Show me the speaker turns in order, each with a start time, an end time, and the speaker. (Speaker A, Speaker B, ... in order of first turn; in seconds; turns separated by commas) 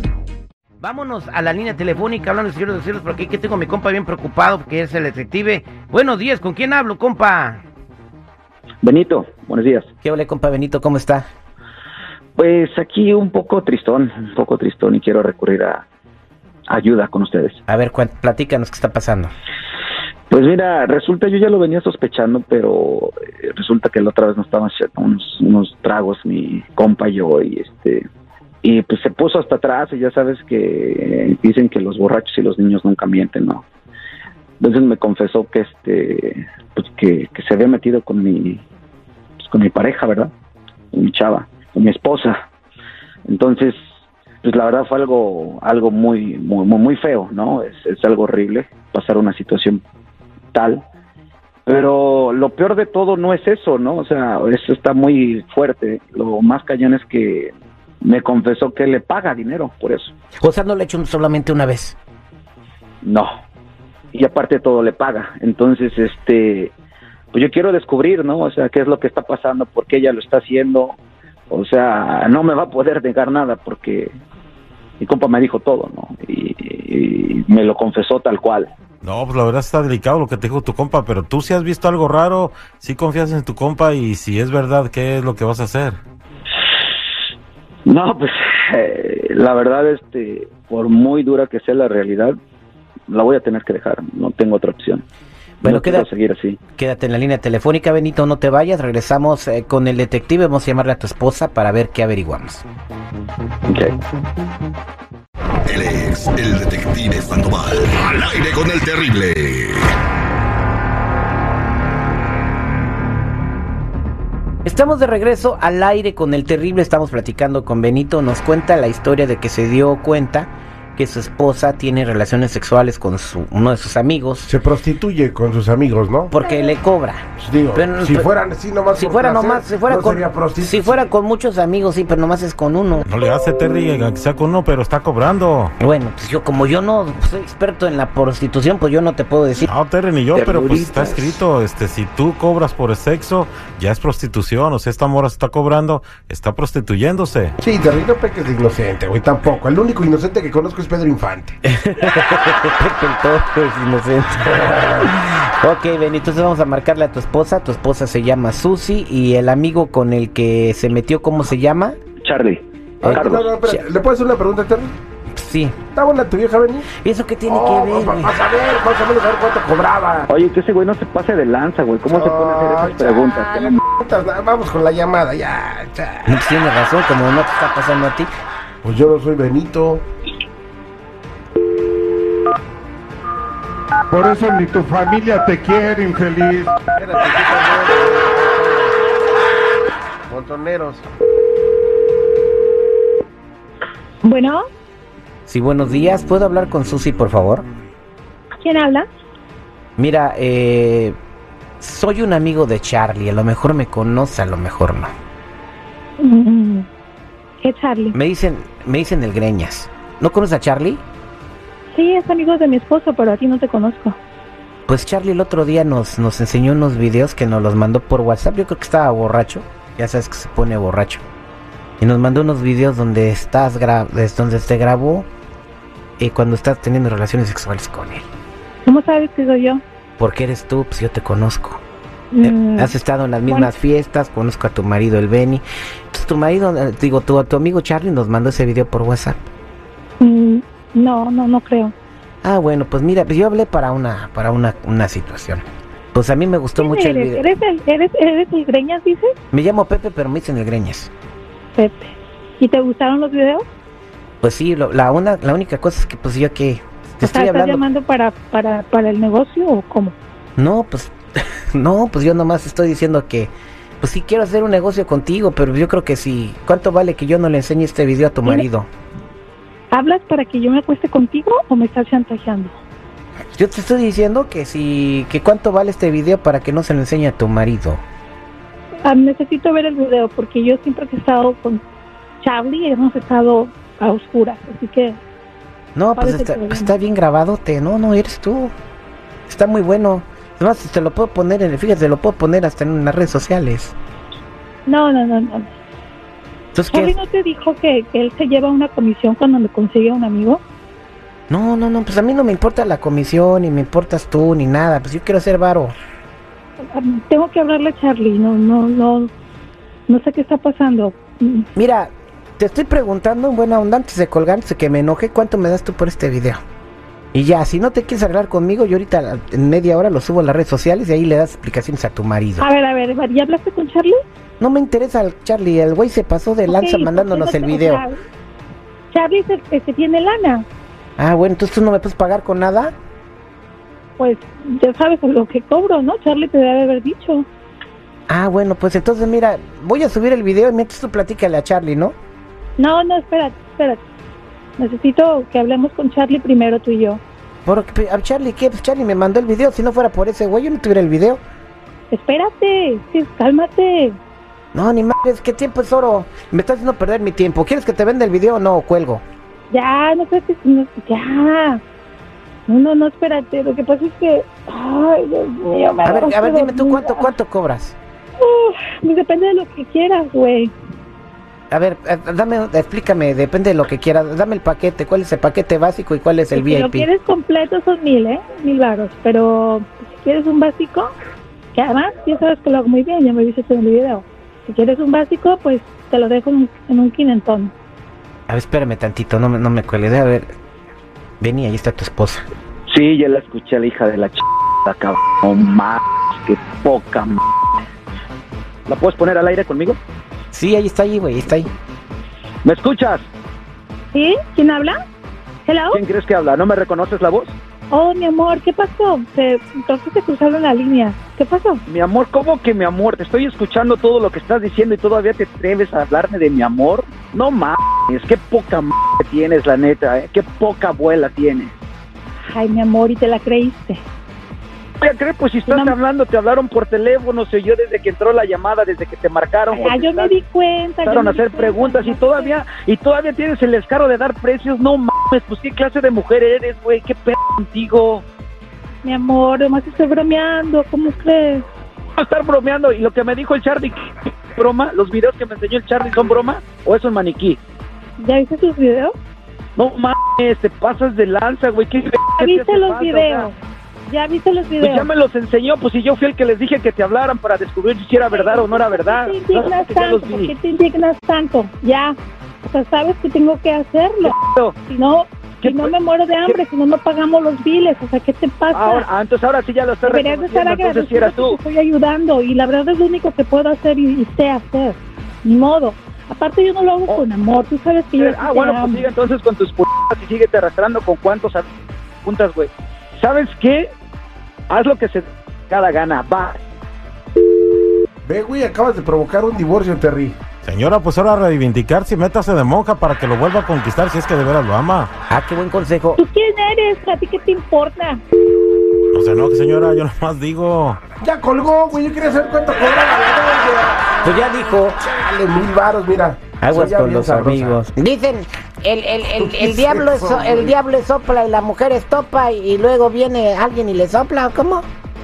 Speaker A: 0.8-7.6, Speaker B: 8.8-9.9, Speaker A: 10.0-11.3, Speaker B: 12.4-15.8, Speaker B: 16.7-17.6, Speaker A: 17.7-19.3, Speaker B: 20.3-28.1, Speaker B: 28.6-33.6, Speaker B: 34.6-38.6, Speaker B: 39.4-40.3, Speaker B: 40.9-42.4, Speaker B: 43.3-43.8, Speaker B: 44.4-49.8, Speaker B: 50.5-50.8, Speaker B: 51.7-60.1, Speaker A: 60.4-62.0, Speaker B: 63.0-63.3, Speaker B: 64.1-66.7, Speaker B: 67.3-71.0, Speaker B: 71.5-74.1, Speaker B: 75.0-78.7, Speaker C: 79.0-86.0, Speaker B: 87.9-92.4, Speaker B: 93.1-95.0, Speaker A: 95.6-96.1, Speaker B: 95.6-96.6, Speaker A: 96.8-102.7, Speaker B: 103.7-104.0, Speaker D: 105.7-109.9, Speaker A: 114.7-124.5, Speaker E: 124.5-126.4, Speaker A: 126.3-128.3, Speaker E: 127.4-130.9, Speaker A: 128.9-133.1, Speaker C: 133.1-135.7, Speaker A: 135.8-139.7, Speaker C: 139.6-147.5, Speaker A: 140.3-141.4, Speaker E: 147.6-151.6, Speaker A: 151.7-162.0, Speaker B: 162.2-163.5, Speaker A: 163.0-163.9, Speaker E: 163.1-165.0, Speaker A: 165.3-165.8, Speaker E: 165.9-166.9, Speaker A: 166.9-168.3, Speaker E: 167.4-170.3, Speaker B: 170.3-173.8, Speaker E: 172.1-176.4, Speaker A: 176.3-178.3, Speaker E: 178.8-180.0, Speaker F: 184.1-186.8, Speaker E: 187.0-188.9, Speaker E: 190.3-191.1, Speaker G: 194.2-194.6, Speaker A: 195.5-197.7, Speaker G: 198.6-199.1, Speaker A: 200.0-201.2, Speaker A: 201.8-205.1, Speaker G: 206.2-206.9, Speaker G: 207.6-208.2, Speaker A: 208.1-211.0, Speaker G: 211.9-214.2, Speaker A: 214.9-221.2, Speaker A: 222.0-225.3, Speaker A: 226.2-228.3, Speaker G: 228.8-229.8, Speaker A: 230.2-231.8, Speaker G: 232.3-232.9, Speaker A: 232.4-239.4, Speaker G: 240.2-241.9, Speaker A: 242.4-247.5, Speaker G: 246.8-249.3, Speaker A: 249.5-251.1, Speaker G: 251.8-253.7, Speaker A: 254.4-257.8, Speaker G: 257.2-260.2, Speaker A: 260.6-261.1, Speaker A: 261.7-268.9, Speaker G: 269.9-272.8, Speaker A: 273.6-278.0, Speaker G: 279.0-281.8, Speaker G: 282.4-285.2, Speaker A: 285.9-288.7, Speaker G: 286.1-286.9, Speaker A: 289.5-294.0, Speaker G: 294.9-295.7, Speaker A: 296.7-297.2, Speaker G: 296.9-300.6, Speaker A: 301.5-305.9, Speaker G: 306.8-309.3, Speaker G: 310.1-311.7, Speaker A: 311.8-316.6, Speaker A: 317.3-322.7, Speaker G: 322.6-324.2, Speaker A: 324.6-328.1, Speaker G: 326.7-328.2, Speaker G: 329.1-330.6, Speaker A: 331.2-332.9, Speaker G: 334.2-337.5, Speaker A: 338.3-342.1, Speaker G: 342.8-344.0, Speaker G: 344.8-347.2, Speaker A: 347.7-351.4, Speaker G: 352.1-354.2, Speaker A: 354.7-359.2, Speaker G: 359.7-361.8, Speaker G: 362.7-367.3, Speaker A: 366.0-368.0, Speaker G: 368.4-370.7, Speaker A: 371.7-377.1, Speaker G: 376.5-381.1, Speaker G: 381.7-387.7, Speaker A: 388.5-390.5, Speaker A: 391.4-392.5, Speaker B: 392.9-397.4, Speaker B: 398.9-400.0, Speaker A: 400.5-401.7, Speaker B: 402.6-403.3, Speaker G: 404.1-404.9, Speaker G: 405.6-406.0, Speaker B: 405.9-407.6, Speaker G: 407.9-411.8, Speaker B: 411.9-421.8, Speaker G: 422.5-424.0, Speaker B: 425.0-430.4, Speaker G: 425.7-425.9, Speaker G: 429.7-432.6, Speaker B: 431.0-438.2, Speaker G: 439.0-441.6, Speaker B: 442.2-447.6, Speaker G: 448.2-449.1, Speaker B: 449.8-453.5, Speaker G: 452.4-455.1, Speaker B: 454.8-460.5, Speaker G: 458.3-464.3, Speaker B: 464.2-464.8, Speaker G: 464.9-469.1, Speaker B: 465.6-465.9, Speaker B: 468.7-471.6, Speaker G: 470.1-479.1, Speaker B: 478.2-481.7, Speaker B: 482.2-483.9, Speaker B: 484.7-486.6, Speaker E: 488.2-490.4, Speaker C: 490.6-495.1, Speaker A: 495.3-496.2, Speaker G: 496.2-498.2, Speaker C: 499.1-501.0, Speaker E: 501.2-504.4, Speaker A: 504.2-505.0, Speaker E: 505.0-507.8, Speaker A: 506.6-514.9, Speaker E: 509.4-510.8